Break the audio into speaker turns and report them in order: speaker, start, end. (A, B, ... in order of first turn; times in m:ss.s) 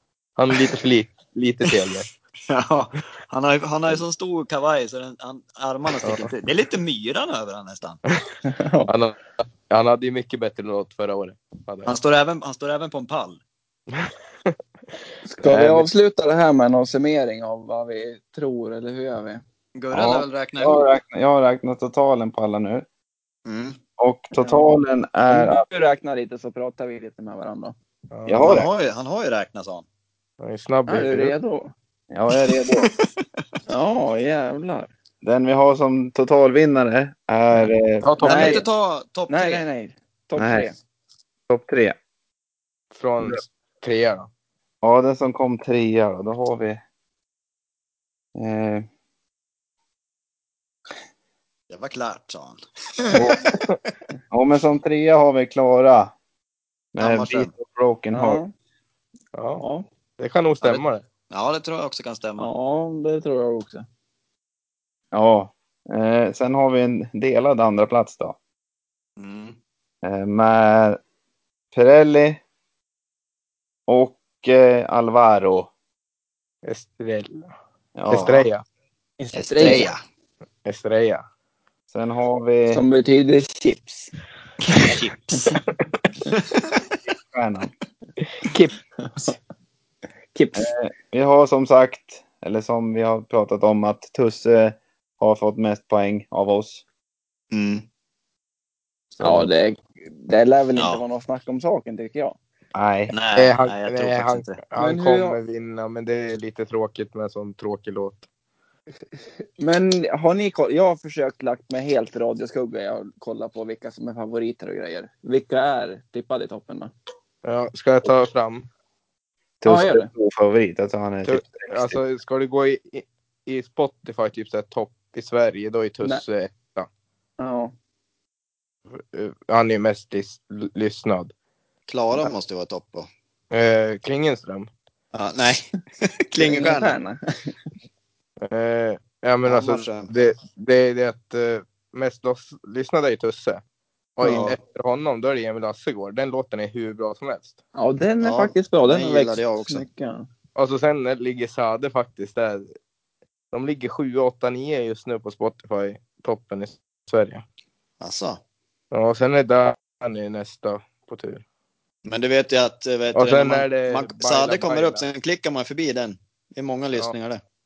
0:00.4-0:02.1 A
0:02.5-0:08.0 B
0:06.0-0:06.3 A
0:08.4-0:08.9 C
0:08.9-0:12.0 A
0:11.8-0:13.4 B
0:15.2-0:19.4 C
0:15.4-0:15.9 D
0:19.7-0:20.9 B
0:19.9-0:22.8 D
0:23.4-0:23.8 B
0:24.0-0:25.6 D
0:24.4-0:24.7 C
0:25.3-0:27.7 C
0:28.1-0:28.5 A
0:28.2-0:28.7 D
0:28.4-0:29.8 B
0:30.4-0:31.4 A
0:30.9-0:31.7 C
0:32.1-0:32.8 D
0:32.7-0:33.1 B
0:33.7-0:34.9 C
0:35.2-0:38.3 D
0:38.0-0:38.6 A
0:38.2-0:38.7 C
0:38.2-0:39.6 B
0:39.3-0:40.7 C
0:40.4-0:40.7 D
0:41.5-0:41.9 D
0:42.9-0:44.3 A
0:44.8-0:46.8 D
0:48.3-0:48.8 D
0:51.7-0:53.5 B
0:53.1-0:53.4 D
0:54.3-0:56.1 D
0:56.9-0:58.4 D
0:57.0-0:57.5 B
0:58.1-0:58.5 C
0:59.3-0:59.6 A
0:59.6-0:59.8 C
1:00.2-1:01.0 A
1:00.6-1:02.5 B
1:02.4-1:03.8 C
1:05.1-1:08.4 D
1:09.2-1:09.6 B
1:10.0-1:11.0 D
1:11.7-1:12.4 D
1:13.9-1:15.7 D
1:16.6-1:17.4 A
1:18.0-1:18.5 D
1:18.1-1:18.6 A
1:19.2-1:19.9 C
1:19.5-1:20.0 B
1:20.6-1:21.2 A
1:21.9-1:22.8 D
1:22.7-1:24.1 C
1:24.8-1:25.6 B
1:27.1-1:27.7 D
1:28.5-1:29.4 C
1:30.3-1:30.7 C
1:30.6-1:36.8 D
1:37.5-1:37.8 B
1:39.2-1:39.5 D
1:39.2-1:42.4 C
1:42.7-1:43.1 D
1:43.1-1:44.6 B
1:43.4-1:48.2 A
1:44.8-1:45.4 C
1:49.6-1:56.9 C
1:57.4-1:58.7 A
1:59.6-2:02.0 D
1:59.6-2:00.1 C
2:01.2-2:06.9 A
2:07.4-2:07.7 C
2:08.9-2:11.3 A
2:11.9-2:13.1 B
2:13.5-2:14.7 A
2:15.1-2:17.0 B
2:16.4-2:17.5 C
2:18.4-2:23.6 A
2:19.4-2:20.1 B
2:24.2-2:27.6 A
2:24.2-2:24.5 C
2:27.7-2:30.3 C
2:28.2-2:29.8 B
2:30.6-2:32.7 A
2:33.5-2:37.4 A
2:38.0-2:38.4 B
2:38.9-2:41.4 A
2:42.0-2:47.4 B
2:43.1-2:45.0 A